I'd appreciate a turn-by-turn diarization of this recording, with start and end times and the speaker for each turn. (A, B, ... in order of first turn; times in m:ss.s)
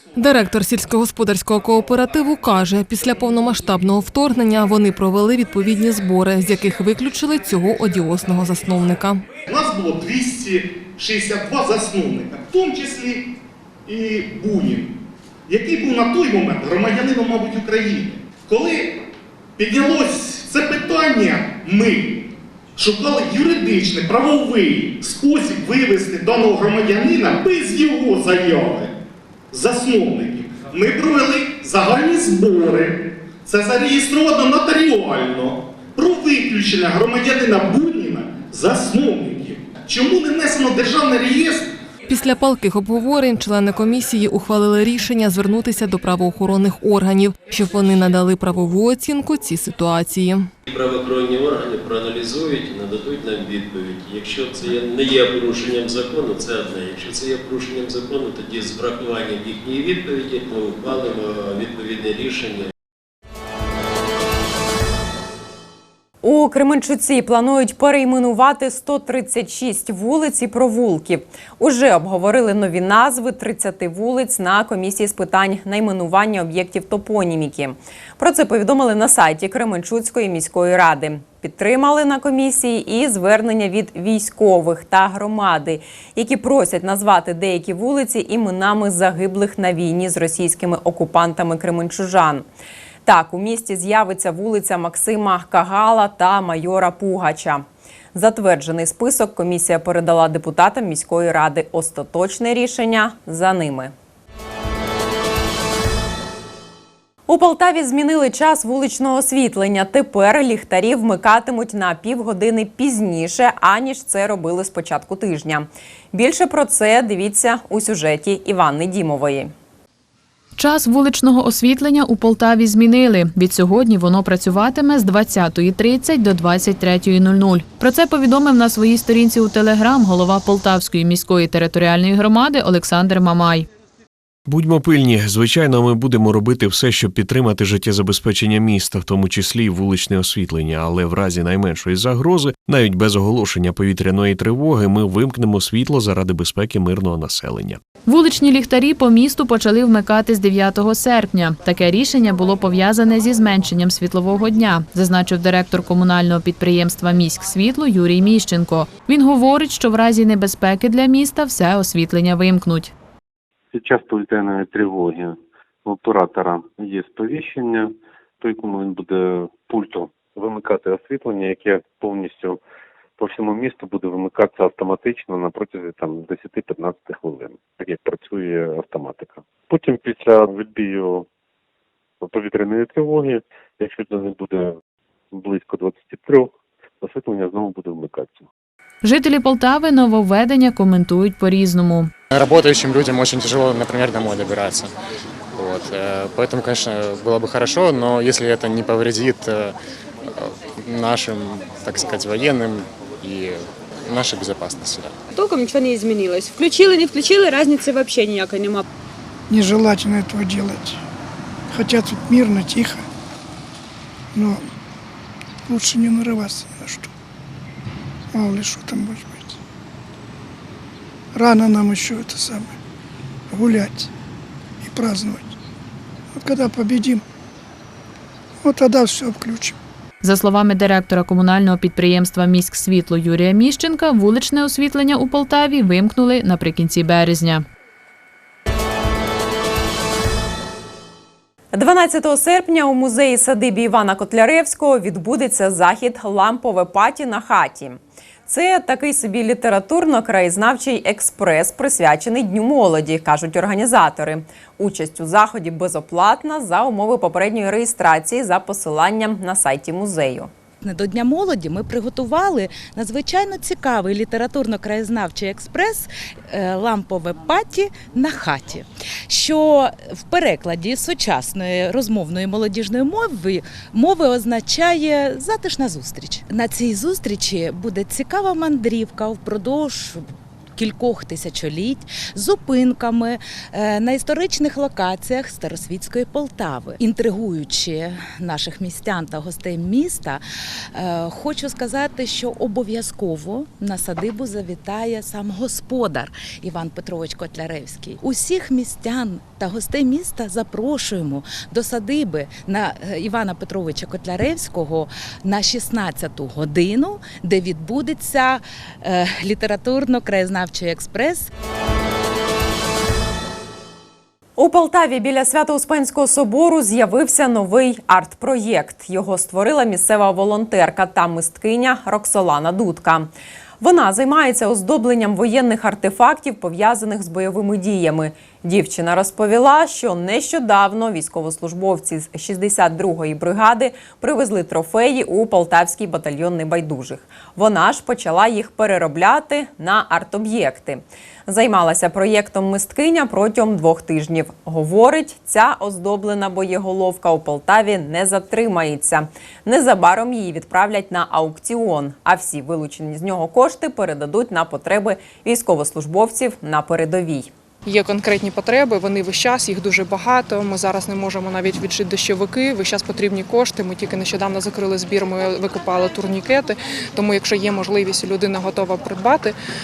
0:00.2-0:09.2 A
0:09.5-0:13.3 B
0:13.9-0:19.0 B
0:19.6-0:28.9 B
0:29.5-0:41.7 B
0:42.1-0:50.5 A
0:50.7-1:02.7 C
0:52.7-0:56.0 D
1:06.2-1:32.4 E
1:33.0-1:43.9 E
1:47.3-1:59.5 E
2:00.6-2:13.7 F
2:14.5-2:27.8 D
2:28.1-2:42.9 F
2:43.7-2:52.6 G
2:53.2-3:01.2 G
3:02.2-3:04.7 G
3:05.3-3:08.4 G
3:09.0-3:12.1 F
3:12.3-3:14.9 H
3:15.6-3:19.8 H
3:20.4-3:25.1 H
3:25.4-3:28.8 I
3:29.5-3:31.0 J
3:31.7-3:33.0 J
3:34.4-3:34.7 J
3:35.7-3:37.1 J
3:38.3-3:39.5 J
3:41.4-3:42.7 J
3:43.5-3:44.1 J
3:44.8-3:45.5 J
3:46.4-3:47.2 J
3:48.6-3:49.7 J
3:50.2-3:57.6 F
4:01.7-4:20.5 E
4:20.8-4:40.2 K
4:40.8-4:50.4 K
4:51.0-5:11.5 K
5:14.6-5:57.5 E
5:57.9-6:09.5 L